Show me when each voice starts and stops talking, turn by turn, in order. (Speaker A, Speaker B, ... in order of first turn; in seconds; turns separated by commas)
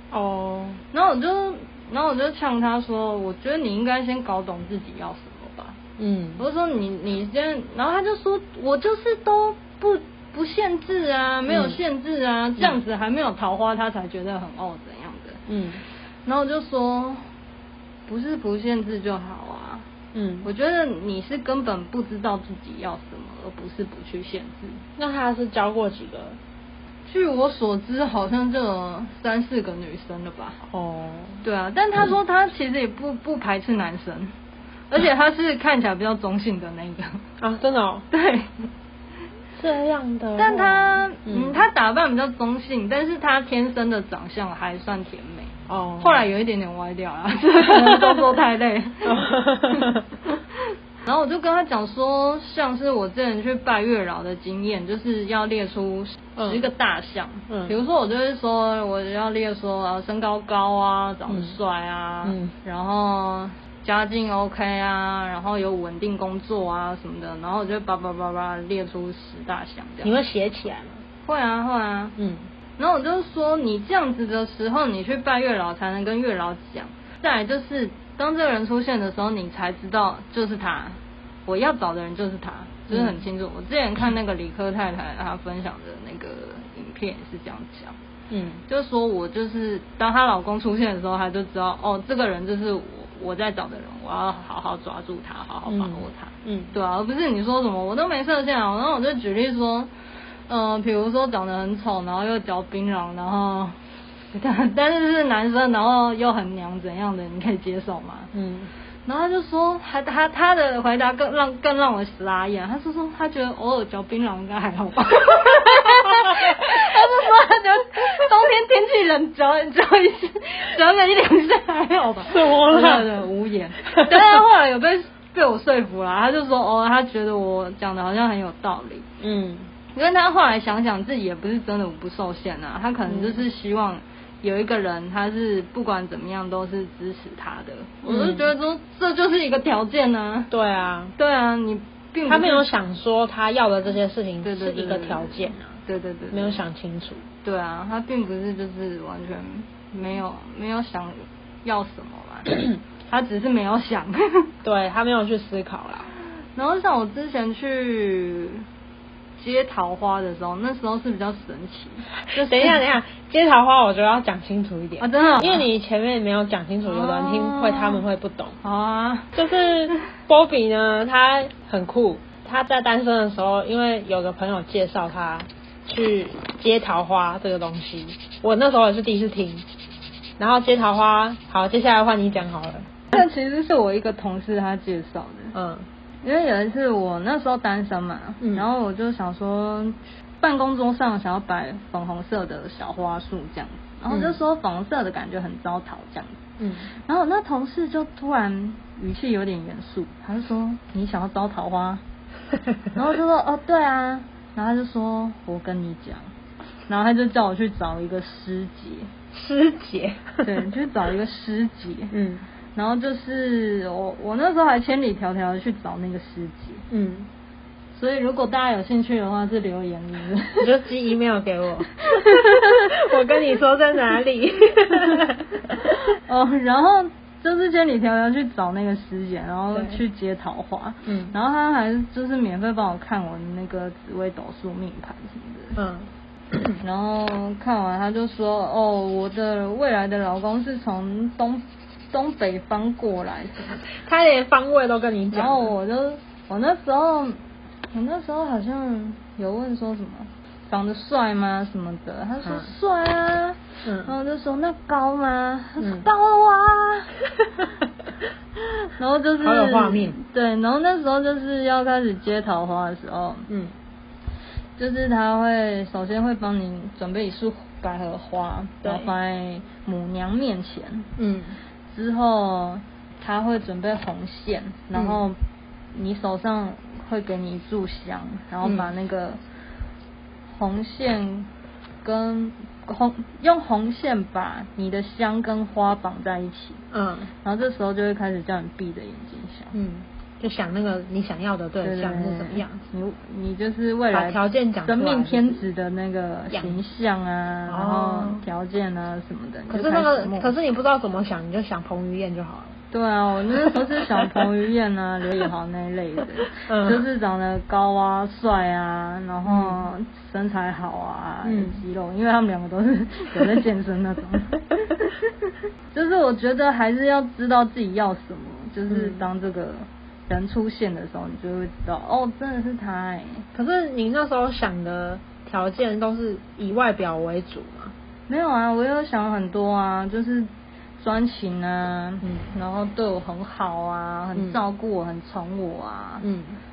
Speaker A: 0.1-0.8, Speaker B: 0.9-5.8, Speaker A: 6.0-6.4, Speaker B: 6.4-15.4, Speaker A: 11.5-11.8, Speaker A: 15.5-15.8, Speaker B: 16.2-17.2, Speaker B: 18.1-19.9, Speaker A: 20.1-20.5, Speaker B: 20.4-24.8, Speaker A: 25.0-26.4, Speaker B: 27.1-30.6, Speaker A: 30.7-31.4, Speaker B: 31.4-34.3, Speaker B: 34.9-37.2, Speaker A: 37.4-38.1, Speaker B: 38.1-38.7, Speaker A: 39.6-41.6, Speaker B: 40.4-50.4, Speaker A: 45.7-46.3, Speaker A: 47.8-48.1, Speaker A: 49.0-50.0, Speaker B: 51.0-70.2, Speaker A: 56.4-56.6, Speaker A: 57.5-57.7, Speaker A: 61.3-61.6, Speaker A: 62.2-62.5, Speaker A: 70.0-71.0, Speaker B: 71.3-72.2, Speaker A: 72.2-72.5, Speaker B: 72.8-88.0, Speaker A: 82.9-83.2, Speaker A: 88.3-88.6, Speaker B: 88.7-99.9, Speaker A: 95.7-96.7, Speaker B: 100.5-103.8, Speaker B: 104.3-108.3, Speaker A: 108.3-108.7, Speaker B: 109.1-129.1, Speaker A: 115.7-116.6, Speaker A: 122.3-123.0, Speaker A: 129.2-129.7, Speaker B: 129.9-140.5, Speaker A: 133.1-133.4, Speaker A: 138.1-138.5, Speaker A: 140.5-141.1, Speaker B: 141.2-142.7, Speaker A: 142.3-145.8, Speaker B: 144.4-146.6, Speaker A: 146.3-147.3, Speaker B: 147.4-154.5, Speaker A: 154.6-156.1, Speaker B: 156.6-158.7, Speaker B: 159.4-162.8, Speaker A: 162.3-168.6, Speaker B: 165.0-165.7, Speaker B: 166.9-168.0, Speaker B: 168.6-169.4, Speaker A: 169.3-179.7, Speaker A: 180.4-182.9, Speaker B: 183.1-185.6, Speaker A: 185.5-185.9, Speaker B: 186.2-202.0, Speaker A: 188.4-188.7, Speaker A: 194.1-194.4, Speaker A: 196.6-196.9, Speaker B: 202.9-206.3, Speaker B: 206.9-209.1, Speaker A: 209.3-210.6, Speaker B: 210.4-212.1, Speaker A: 212.1-212.4, Speaker B: 212.8-216.8, Speaker A: 216.9-217.3, Speaker B: 217.9-220.7, Speaker A: 220.6-226.0, Speaker B: 222.1-222.9, Speaker B: 226.1-235.8, Speaker A: 231.1-231.3, Speaker A: 235.8-236.1, Speaker B: 236.8-243.8, Speaker A: 244.0-245.7, Speaker B: 245.3-247.4, Speaker B: 247.9-257.5, Speaker A: 252.4-252.7, Speaker A: 253.8-254.1, Speaker A: 255.8-256.1, Speaker B: 258.6-263.5, Speaker A: 259.4-260.2, Speaker A: 263.5-263.7, Speaker B: 264.8-271.1, Speaker A: 268.8-269.1, Speaker A: 271.2-271.6, Speaker B: 271.9-275.4, Speaker A: 274.9-275.2, Speaker B: 275.9-279.4, Speaker A: 278.6-278.9, Speaker B: 280.5-281.5, Speaker B: 282.0-286.8, Speaker A: 286.9-287.3, Speaker B: 287.4-289.8, Speaker A: 289.7-292.8, Speaker B: 291.8-300.5, Speaker A: 294.1-295.6, Speaker A: 296.5-296.8, Speaker A: 297.7-298.4, Speaker A: 299.7-302.8, Speaker B: 302.9-323.5, Speaker A: 303.6-304.4, Speaker A: 306.6-307.0, Speaker A: 309.5-309.9, Speaker A: 311.4-311.8, Speaker A: 318.9-319.2, Speaker A: 323.5-327.9, Speaker B: 328.3-336.3, Speaker A: 332.2-332.5, Speaker A: 336.2-336.6